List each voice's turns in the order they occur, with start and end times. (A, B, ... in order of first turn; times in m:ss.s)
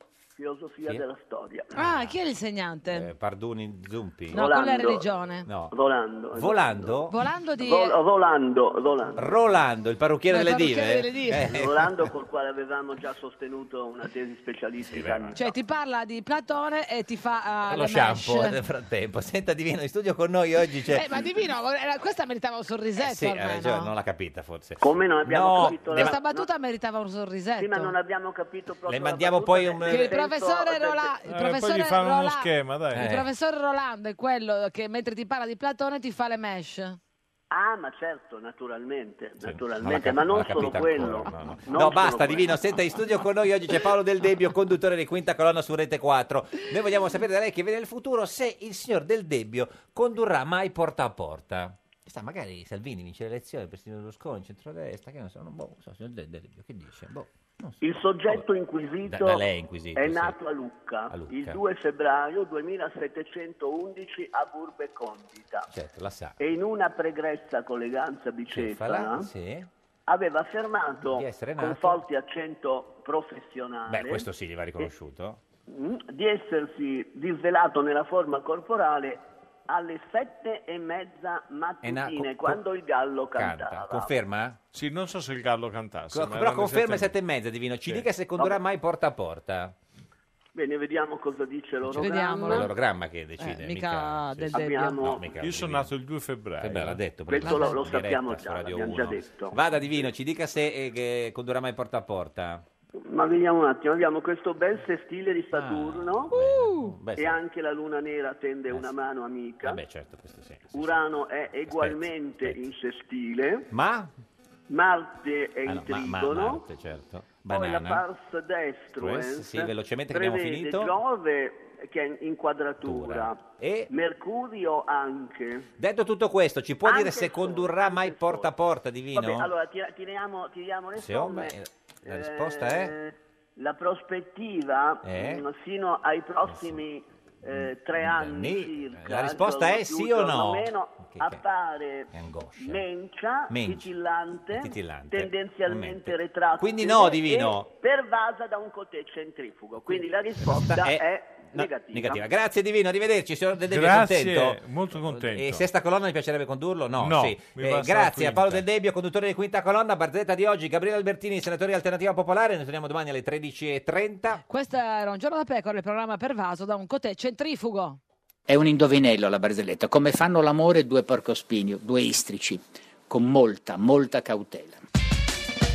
0:00.4-0:01.7 A
0:01.7-0:03.1 B
0:01.8-0:02.2 C
0:02.9-0:04.5 C
0:04.3-0:05.5 B
0:04.3-0:07.0 A
0:05.5-0:05.8 C
0:06.3-0:07.2 C
0:07.1-0:08.0 B
0:07.6-0:09.3 A
0:09.2-0:12.1 C
0:10.3-0:11.5 B
0:11.5-0:15.5 A
0:14.8-0:15.4 C
0:15.4-0:18.6 B
0:17.7-0:21.2 C
0:20.9-0:23.9 B
0:23.0-0:26.2 C
0:24.8-0:26.5 A
0:25.8-0:28.0 B
0:27.6-0:31.2 A
0:28.9-0:30.2 C
0:29.9-0:37.0 B
0:31.2-0:33.1 D
0:32.9-0:33.3 C
0:37.5-0:42.6 A
0:39.4-0:58.4 C
0:57.8-1:05.7 A
0:59.1-1:00.4 C
1:01.1-1:01.6 C
1:05.7-1:06.4 C
1:06.4-1:09.3 A
1:08.5-1:09.7 C
1:10.1-1:14.3 A
1:11.1-1:12.0 C
1:13.9-1:15.4 C
1:15.7-1:24.1 A
1:21.8-1:22.6 C
1:23.3-1:24.6 C
1:24.7-1:27.1 D
1:26.1-1:29.8 C
1:30.6-1:32.7 A
1:31.8-1:35.9 C
1:32.0-1:32.7 B
1:33.4-1:35.0 B
1:34.5-1:35.3 A
1:35.4-1:37.0 D
1:36.6-1:42.6 C
1:37.3-1:39.7 A
1:37.4-1:37.8 B
1:43.1-1:46.4 A
1:45.5-1:47.4 C
1:46.3-1:47.0 B
1:47.2-1:49.8 A
1:48.7-1:49.0 C
1:49.6-1:51.0 C
1:50.7-1:53.7 A
1:51.7-1:52.6 C
1:53.7-1:54.1 C
1:54.7-1:56.7 A
1:55.6-1:58.0 C
1:57.4-2:05.7 A
1:59.0-2:01.0 C
2:02.8-2:03.9 C
2:05.8-2:09.5 C
2:06.8-2:08.5 A
2:09.1-2:32.2 A
2:11.0-2:13.0 C
2:15.0-2:15.4 C
2:16.4-2:16.8 C
2:17.5-2:21.4 C
2:22.1-2:22.8 C
2:23.5-2:23.9 C
2:24.5-2:27.7 C
2:29.9-2:44.4 C
2:33.7-2:35.6 D
2:37.0-2:38.6 D
2:44.5-2:48.0 B
2:48.5-2:54.8 E